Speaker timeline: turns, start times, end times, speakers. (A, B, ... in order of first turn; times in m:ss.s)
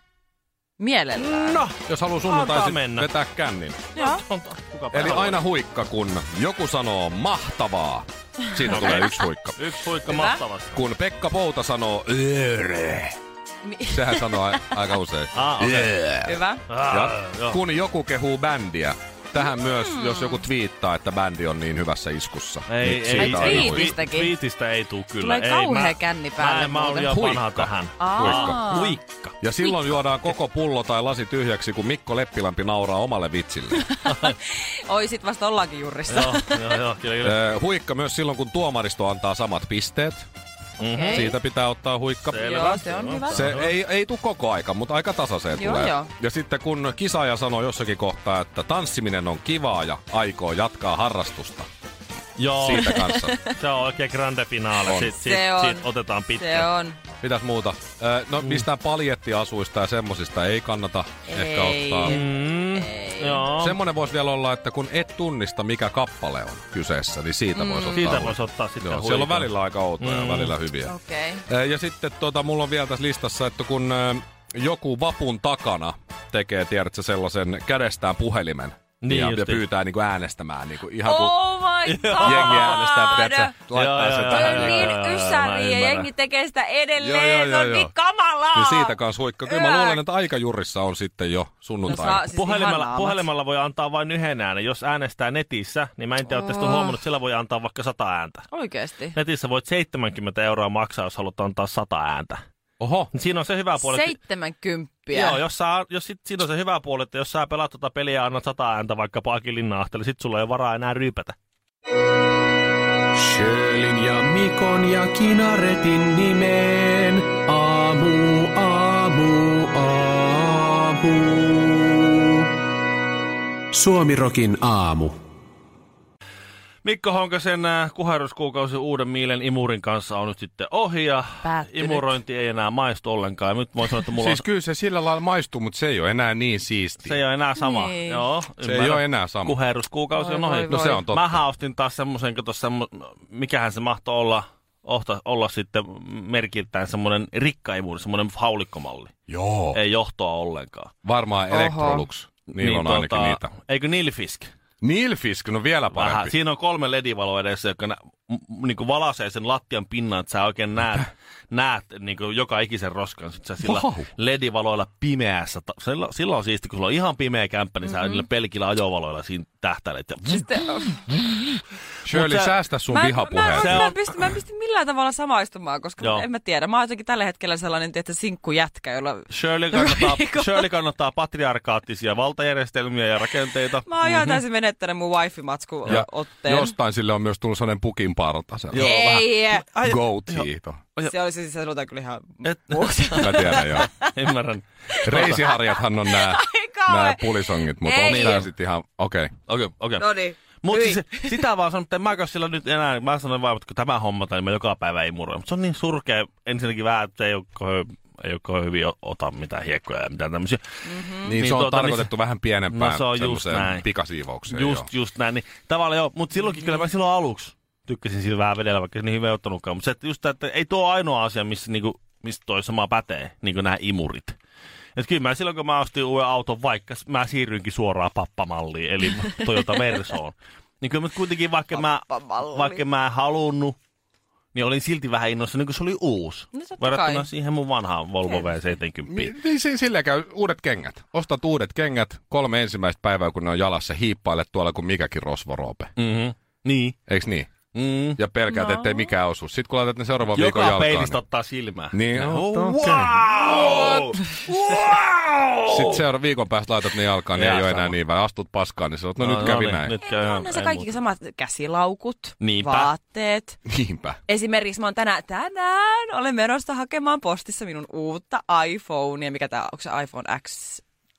0:00.8-0:01.6 A
0:01.2-0:03.1 B
0:01.9-0:03.9 C
0:04.0-0:05.4 B
0:04.9-0:09.6 C
0:08.7-0:10.8 B
0:10.1-0:10.4 A
0:10.7-0:13.2 C
0:13.6-0:14.8 A
0:13.9-0:24.0 C
0:15.3-0:15.9 B
0:16.2-0:16.6 A
0:16.7-0:17.6 B
0:19.8-0:20.4 A
0:22.7-0:29.4 B
0:23.2-0:24.3 A
0:25.2-0:27.1 A
0:27.1-0:28.9 C
0:28.0-0:28.9 A
0:29.4-0:33.9 C
0:33.8-0:36.8 A
0:34.1-0:34.4 B
0:36.1-0:37.4 B
0:37.2-0:40.3 C
0:40.8-0:41.3 B
0:40.9-0:41.3 A
0:41.1-0:42.8 C
0:42.2-0:43.7 B
0:42.4-0:43.4 A
0:43.3-0:51.7 C
0:45.6-0:46.1 A
0:52.4-0:56.7 B
0:52.5-0:53.4 C
0:52.9-0:53.5 A
0:54.9-0:55.2 C
0:55.2-0:57.0 A
0:57.2-1:02.2 C
0:58.4-0:58.6 B
1:01.3-1:03.5 A
1:02.0-1:03.8 B
1:03.6-1:11.0 C
1:07.6-1:07.9 A
1:07.8-1:10.5 B
1:10.9-1:11.4 A
1:11.5-1:21.6 C
1:19.0-1:19.6 B
1:21.0-1:23.6 A
1:21.8-1:23.0 B
1:22.2-1:25.0 C
1:23.7-1:26.1 B
1:24.3-1:30.0 A
1:27.0-1:27.9 C
1:28.5-1:32.2 C
1:31.8-1:33.3 A
1:32.3-1:38.5 B
1:36.3-1:37.0 A
1:38.5-1:39.2 A
1:39.1-1:42.4 B
1:42.8-1:43.1 C
1:43.1-1:44.2 B
1:43.8-1:45.4 A
1:45.1-1:51.4 B
1:53.2-2:02.4 D
2:03.7-2:05.2 D
2:06.8-2:14.4 B
2:11.4-2:12.1 A
2:14.2-2:17.2 C
2:17.0-2:29.1 B
2:17.6-2:18.2 A
2:18.6-2:19.6 C
2:20.2-2:21.0 A
2:20.7-2:21.4 C
2:29.3-2:29.8 C
2:29.7-2:30.9 B
2:31.0-2:33.4 C
2:31.5-2:32.0 A
2:32.5-2:34.5 B
2:34.8-2:36.3 C
2:35.9-2:51.6 B
2:43.6-2:44.1 C
2:47.9-2:48.2 A
2:50.3-2:51.0 A
2:52.0-2:53.9 C
2:52.1-2:52.5 B
2:52.9-3:00.6 A
2:53.5-2:54.0 B
2:56.0-2:56.3 B
2:59.3-3:04.4 B
3:03.8-3:06.7 A
3:05.9-3:08.9 C
3:08.7-3:11.1 B
3:08.8-3:09.6 A
3:09.8-3:10.8 C
3:11.0-3:14.1 A
3:12.4-3:15.4 B
3:13.1-3:13.9 C
3:14.9-3:18.3 A
3:15.0-3:19.3 C
3:18.0-3:18.5 B
3:19.5-3:30.6 B
3:20.0-3:21.4 A
3:30.8-3:31.3 A
3:31.2-3:32.1 B
3:31.2-3:34.9 C
3:32.7-3:33.9 B
3:34.5-3:44.4 B
3:45.0-3:53.8 B
3:52.0-3:52.8 A
3:54.5-3:59.3 B
3:56.5-3:57.3 A
3:59.1-4:05.9 C
4:06.0-4:07.0 B
4:07.1-4:07.5 C
4:07.7-4:08.2 B
4:08.2-4:11.2 C
4:08.5-4:09.0 A
4:10.3-4:16.0 B
4:11.9-4:13.2 C
4:15.7-4:19.9 C
4:17.3-4:18.0 B
4:19.2-4:21.0 B
4:20.0-4:23.6 A
4:22.4-4:22.9 B
4:23.7-4:24.2 C
4:24.3-4:30.8 A